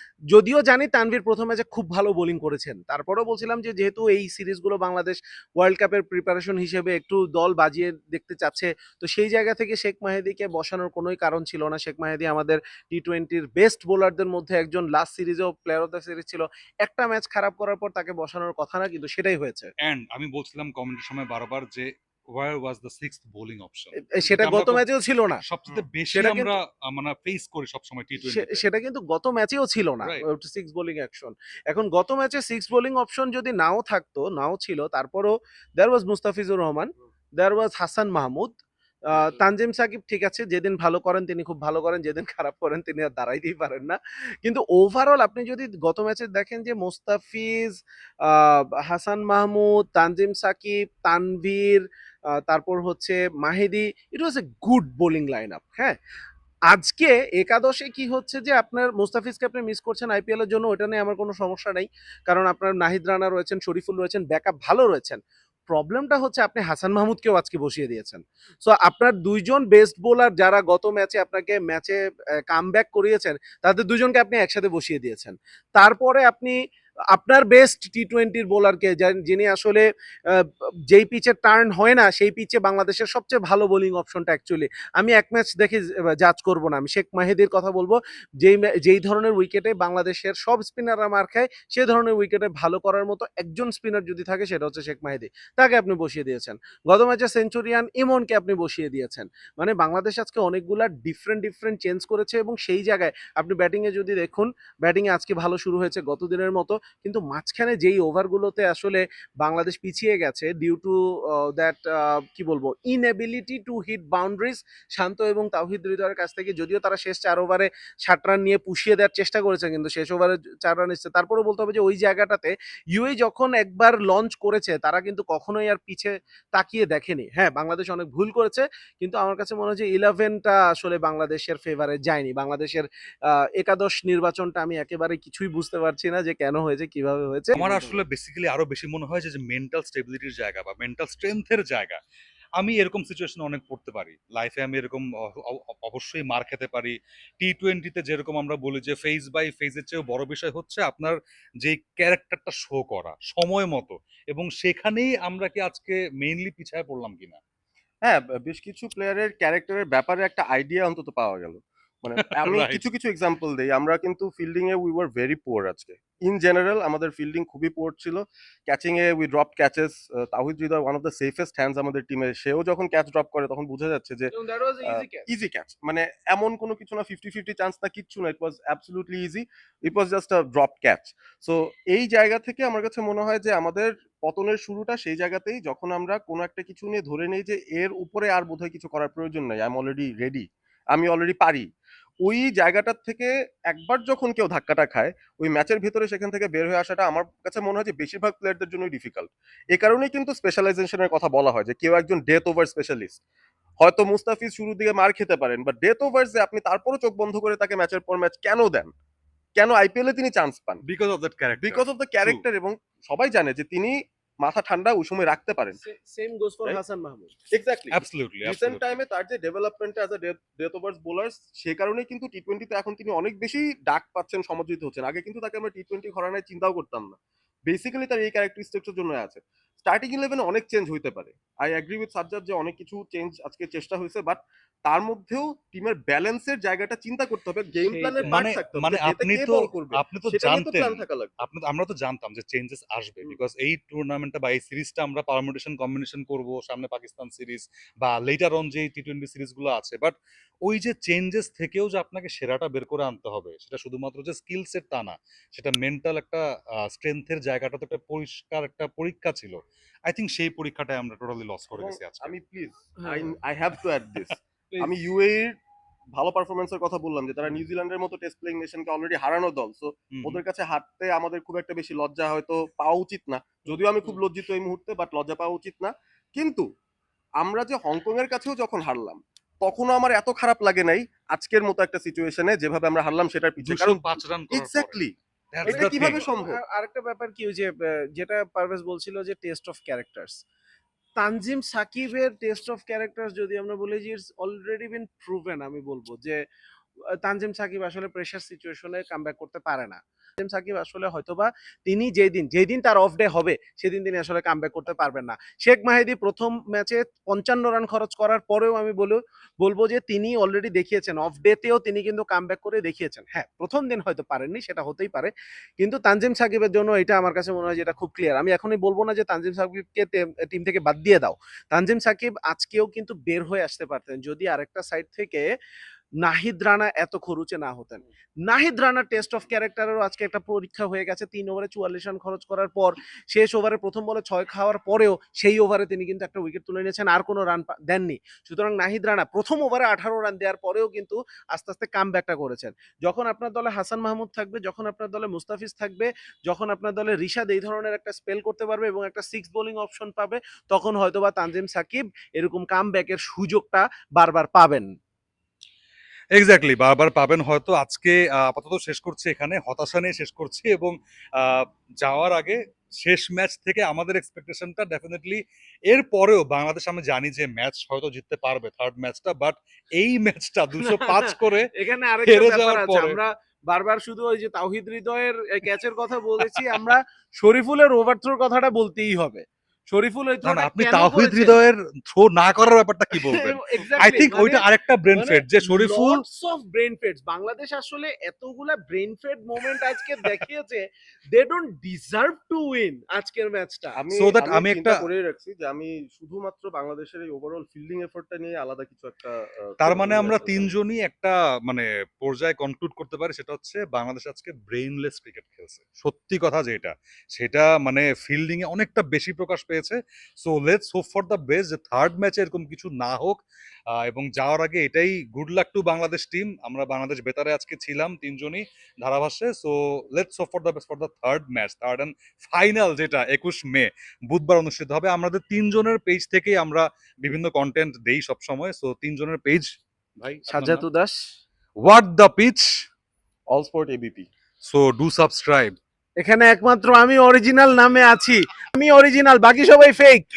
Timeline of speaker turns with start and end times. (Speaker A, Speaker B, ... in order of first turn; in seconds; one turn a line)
Speaker A: 0.3-19.7
Speaker B: 19.8-24.9
Speaker A: 24.2-25.4
Speaker B: 25.4-28.6
Speaker A: 26.1-26.5
Speaker A: 28.2-38.6
Speaker A: 39.1-56.0
Speaker A: 56.7-72.0
Speaker A: 72.5-76.6
Speaker A: 77.1-137.6
Speaker B: 137.6-142.0
Speaker C: 137.6-138.0
Speaker B: 142.6-157.4
Speaker C: 158.1-174.3
Speaker B: 162.3-162.8
Speaker A: 174.3-175.3
Speaker C: 174.8-191.7
Speaker C: 192.3-203.2
Speaker C: 203.8-208.9
Speaker C: 209.6-210.8
Speaker B: 210.8-212.4
Speaker C: 211.6-215.8
Speaker A: 215.8-217.3
Speaker C: 217.5-241.5
Speaker B: 217.9-219.0
Speaker A: 237.8-238.4
Speaker B: 238.2-262.4
Speaker C: 261.7-265.6
Speaker A: 263.0-263.4
Speaker C: 266.2-276.6
Speaker B: 270.1-270.4
Speaker C: 277.4-285.1
Speaker B: 283.6-286.3
Speaker A: 285.6-290.4
Speaker C: 285.7-286.6
Speaker A: 291.2-296.4
Speaker A: 297.2-325.4
Speaker A: 326.2-354.9
Speaker B: 356.4-371.7
Speaker A: 370.8-381.6
Speaker B: 372.2-373.2
Speaker B: 376.4-376.9
Speaker B: 380.4-386.2
Speaker A: 383.2-390.8
Speaker A: 391.3-394.0
Speaker C: 393.9-400.7
Speaker B: 394.1-395.1
Speaker B: 399.8-413.4
Speaker B: 414.0-430.9
Speaker A: 430.5-431.2
Speaker B: 431.8-432.7
Speaker C: 433.5-434.3
Speaker B: 434.6-435.8
Speaker A: 436.2-440.2